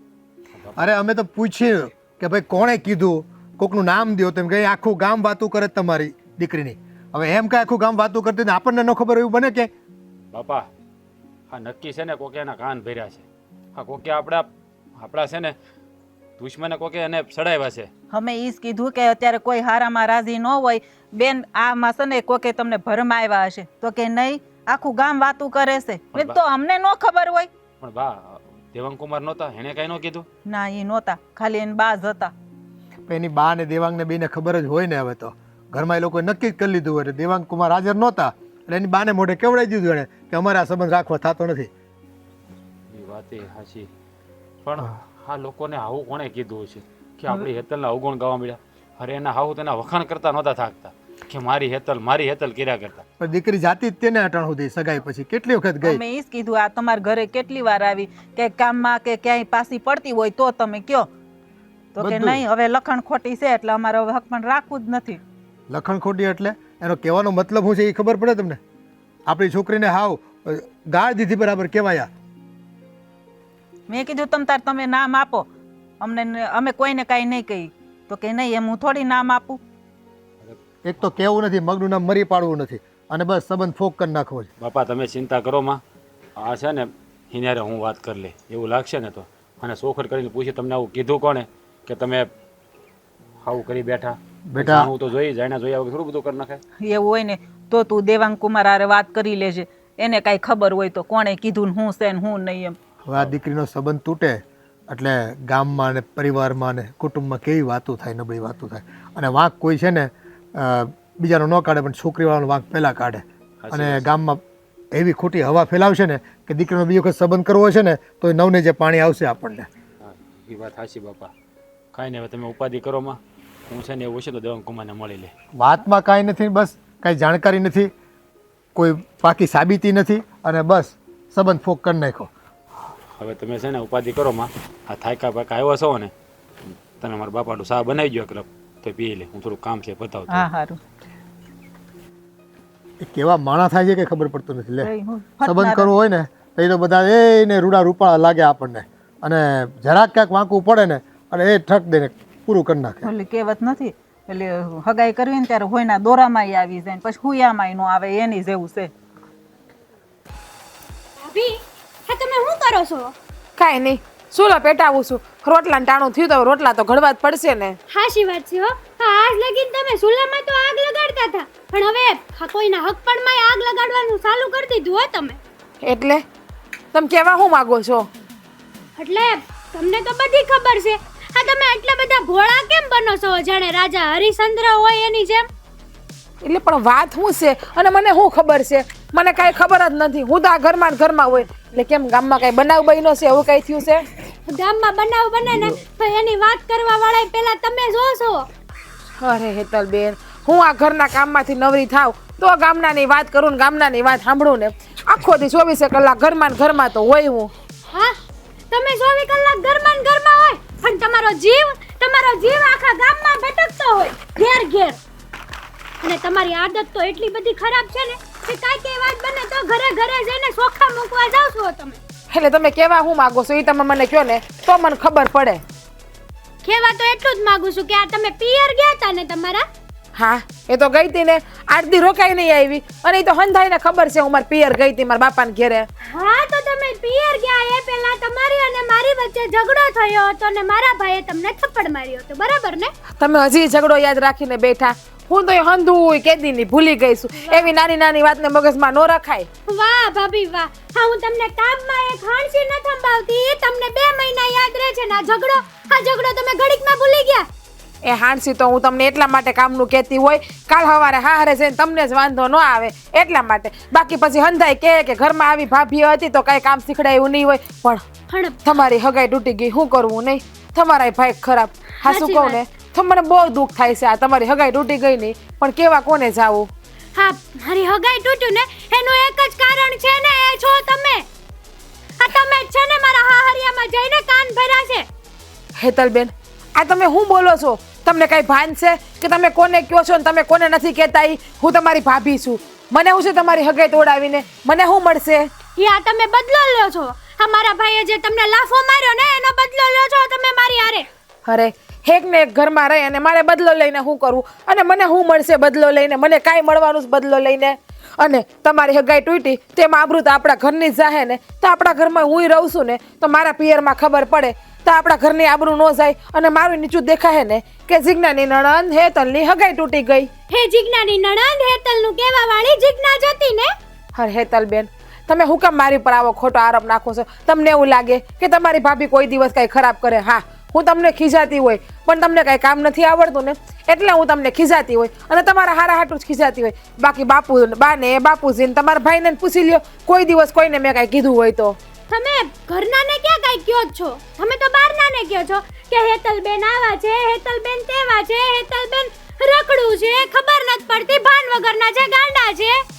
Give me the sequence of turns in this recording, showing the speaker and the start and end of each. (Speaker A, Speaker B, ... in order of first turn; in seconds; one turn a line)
Speaker A: 0.5-0.8
Speaker B: 0.8-9.7
Speaker A: 10.3-10.7
Speaker A: 11.5-15.5
Speaker A: 16.4-17.9
Speaker C: 18.1-27.5
Speaker A: 26.1-26.4
Speaker A: 27.8-30.3
Speaker C: 30.4-32.3
Speaker B: 33.1-41.7
Speaker A: 42.9-43.9
Speaker A: 44.6-53.0
Speaker B: 53.2-56.0
Speaker C: 55.8-61.1
Speaker C: 61.9-65.2
Speaker B: 62.0-62.4
Speaker B: 65.7-68.6
Speaker B: 69.3-72.1
Speaker C: 73.9-75.5
Speaker C: 76.0-79.6
Speaker A: 80.4-81.0
Speaker B: 80.8-84.5
Speaker A: 84.6-85.8
Speaker A: 86.4-92.3
Speaker A: 93.4-96.6
Speaker B: 94.5-94.9
Speaker C: 96.8-102.8
Speaker B: 103.0-114.4
Speaker A: 113.6-114.1
Speaker B: 114.9-119.7
Speaker A: 120.0-121.3
Speaker A: 121.9-125.3
Speaker B: 125.6-127.9
Speaker B: 128.8-132.3
Speaker A: 133.2-136.1
Speaker A: 137.0-140.5
Speaker C: 140.3-140.8
Speaker B: 143.0-153.1
Speaker C: 144.8-145.9
Speaker C: 153.0-158.9
Speaker D: 161.2-161.5
Speaker D: 162.1-163.1
Speaker E: 163.6-167.8
Speaker D: 167.9-175.4
Speaker E: 175.8-176.2
Speaker E: 176.9-178.1
Speaker D: 178.9-185.5
Speaker E: 186.4-194.1
Speaker D: 194.5-198.5
Speaker E: 199.2-207.5
Speaker D: 208.7-215.0
Speaker D: 216.0-222.0
Speaker E: 222.3-225.6
Speaker D: 226.6-229.6
Speaker E: 230.2-235.9
Speaker D: 236.1-242.9
Speaker E: 243.2-249.5
Speaker D: 247.4-247.7
Speaker D: 249.7-257.5
Speaker E: 258.0-268.0
Speaker D: 268.3-268.6
Speaker E: 268.6-276.7
Speaker D: 272.0-272.6
Speaker D: 277.1-281.2
Speaker D: 282.2-285.1
Speaker E: 285.8-295.5
Speaker D: 295.8-301.1
Speaker E: 301.4-320.3
Speaker D: 320.5-323.7
Speaker E: 324.1-341.8
Speaker D: 342.1-352.8